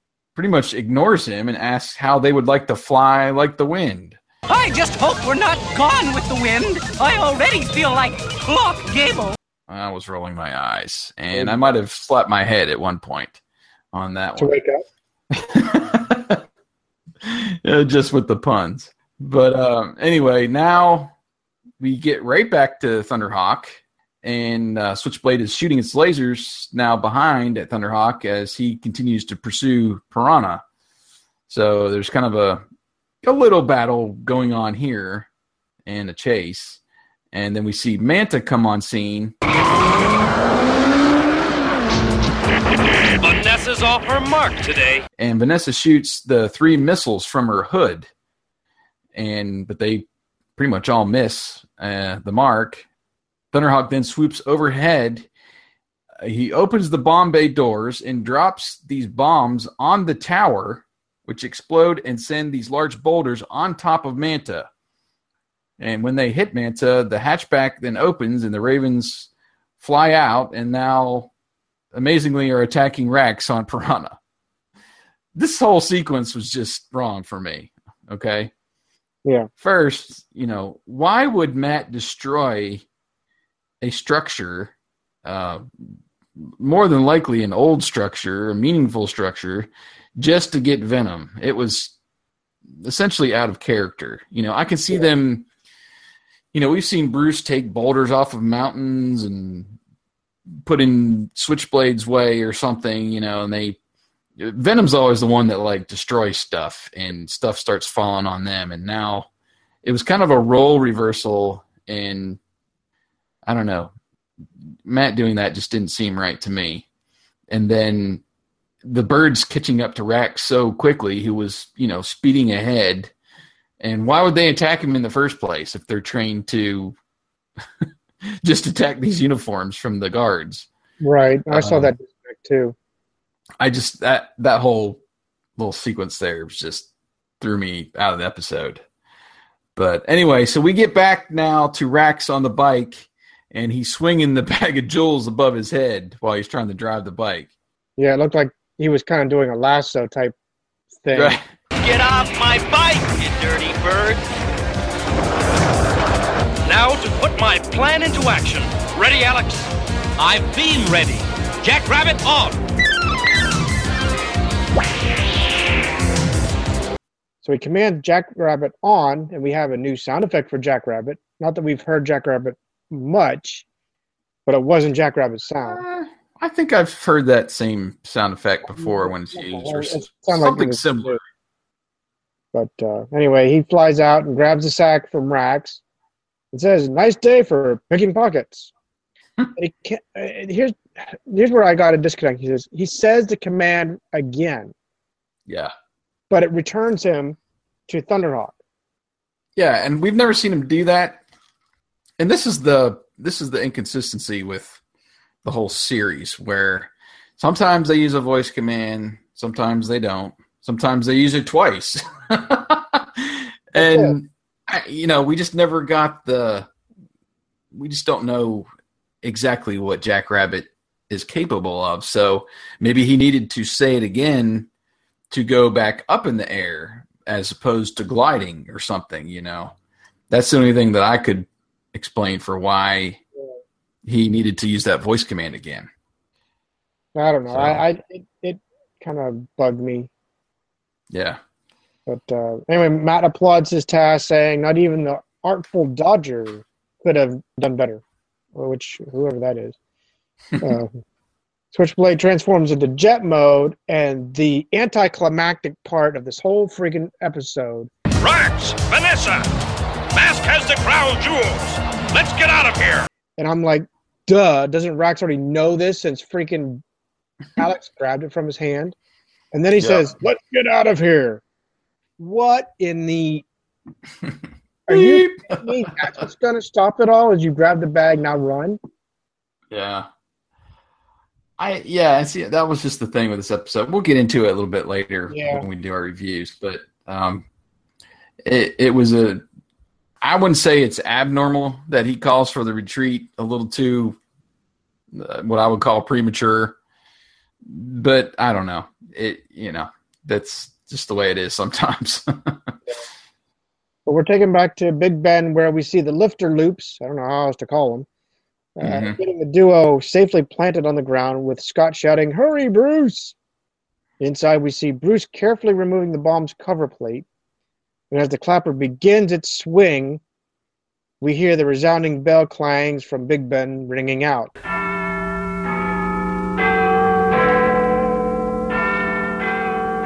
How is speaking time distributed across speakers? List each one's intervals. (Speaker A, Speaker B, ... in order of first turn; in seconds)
Speaker A: 0.3-4.2, 9.7-13.4, 13.9-14.6, 15.3-16.4, 17.2-21.1, 21.8-30.6, 31.5-32.6, 33.2-35.3, 35.9-36.8, 37.3-39.3, 45.2-48.1, 49.1-52.8, 53.5-55.3, 56.2-64.7, 65.8-71.3, 71.9-74.2, 75.3-78.5, 79.6-82.8, 83.8-91.9, 92.8-95.5, 96.5-99.8, 100.6-103.8, 104.4-109.3, 109.8-112.4, 113.5-113.9, 114.8-116.8, 117.5-118.2, 118.8-123.1, 123.8-127.0, 127.8-130.7, 131.5-131.9, 133.6-135.0, 135.6-136.9, 137.4-138.8, 139.8-147.5, 151.1-151.5, 175.6-181.2, 195.5-195.7, 199.6-201.2, 202.2-204.8, 205.4-216.7, 217.7-218.7, 219.2-224.7, 225.3-229.7, 230.3-233.2, 234.0-235.9, 237.5-237.8, 241.1-241.4, 269.8-270.1, 274.9-275.7, 279.7-280.1, 281.6-287.4, 288.4-289.4, 290.2-294.2, 295.1-296.8, 297.6-302.7, 308.8-309.2
Speaker B: 4.5-9.3
Speaker C: 14.4-14.8, 131.0-132.7, 148.0-150.3, 151.0-151.4, 167.4-173.7, 174.4-175.8, 178.8-181.2, 182.5-185.8, 186.5-188.7, 189.6-194.7, 196.3-197.4, 197.9-198.5, 213.8-214.1, 237.1-240.1, 242.1-248.0, 248.5-249.8, 250.6-250.9, 251.7-257.9, 263.4-266.8, 267.6-268.9, 269.5-271.4, 272.2-273.4, 274.9-278.8, 285.3-285.6, 304.1-308.1, 308.8-313.3, 314.2-317.2, 318.1-320.2, 321.2-324.5
Speaker D: 43.2-45.0, 156.6-162.6
Speaker E: 151.8-154.2
Speaker F: 258.2-259.5, 260.1-263.1